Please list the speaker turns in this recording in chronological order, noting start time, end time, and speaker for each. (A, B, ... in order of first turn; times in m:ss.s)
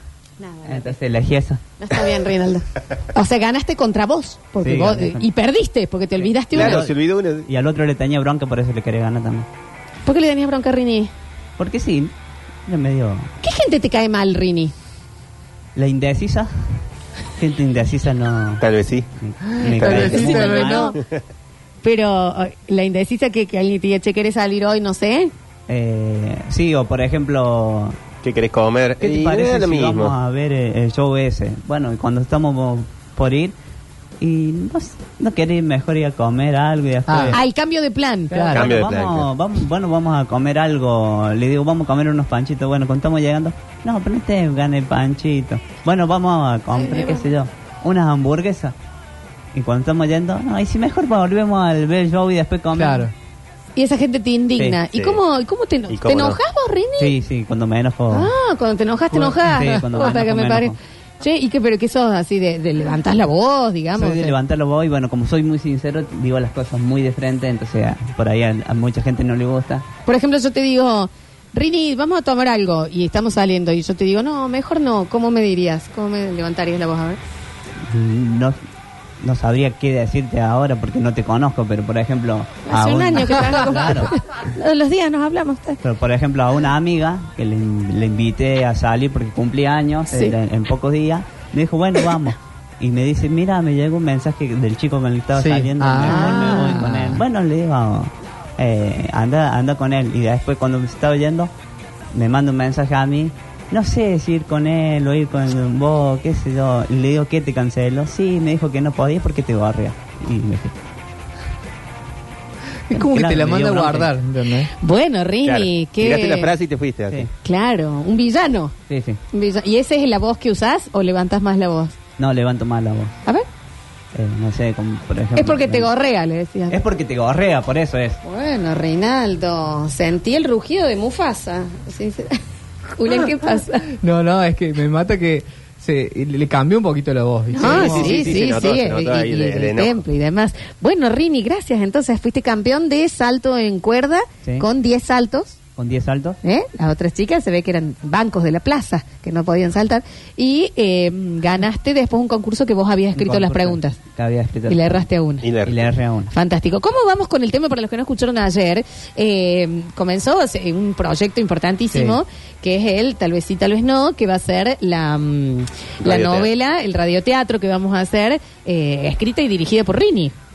0:00.4-0:01.0 A
0:00.6-0:01.6 B
0:01.8-0:06.8 A
0:04.6-0:05.3 B
0:06.5-0:09.5 B
0:06.5-0:07.5 C
0:10.1-0:11.1 A
0:11.6-0:12.1 B
0:12.7-0:13.3 B
0:13.4-0:14.7 A
0:15.8-0:16.8 B
0:17.4-0:18.6 B
0:18.6-0:19.1 C
0:19.2-0:21.0 B
0:19.5-0:20.9 D
0:19.8-0:20.2 C
0:19.8-0:21.0 A
0:21.8-0:25.3 A
0:25.7-0:28.0 B
0:28.2-0:30.1 C
0:29.0-0:33.5 B
0:34.2-0:37.4 B
0:37.1-0:37.4 D
0:37.3-0:38.5 A
0:38.3-0:38.7 D
0:38.5-0:48.7 B
0:38.5-0:39.3 C
0:46.7-0:47.3 A
0:49.5-0:53.1 B
0:52.8-0:53.1 D
0:53.8-0:57.2 A
0:54.9-0:55.2 C
0:55.9-0:56.4 C
0:57.0-0:58.3 B
0:58.1-1:04.4 A
0:59.1-0:59.7 D
0:59.4-1:00.8 B
1:04.0-1:09.9 B
1:10.1-1:17.2 A
1:17.9-1:18.6 B
1:19.2-1:24.1 B
1:22.7-1:25.8 A
1:25.8-1:41.5 B
1:35.4-1:37.2 D
1:36.1-1:36.6 A
1:42.1-1:50.8 B
1:52.9-1:54.7 D
1:52.9-1:54.1 B
1:54.8-1:56.5 A
1:55.5-1:57.3 C
1:57.4-1:58.7 A
1:58.9-1:59.2 B
1:59.3-2:02.0 A
2:02.2-2:03.2 B
2:04.1-2:05.9 B
2:05.4-2:06.8 A
2:06.7-2:08.2 B
2:08.2-2:12.4 A
2:13.0-2:13.9 A
2:13.9-2:18.4 D
2:17.5-2:25.6 A
2:17.6-2:20.0 C
2:25.8-2:26.4 B
2:26.4-2:34.0 A
2:33.2-2:35.1 B
2:34.7-2:35.5 A
2:35.4-2:35.9 C
2:35.6-2:36.3 B
2:36.3-2:50.3 A
2:46.0-2:46.5 C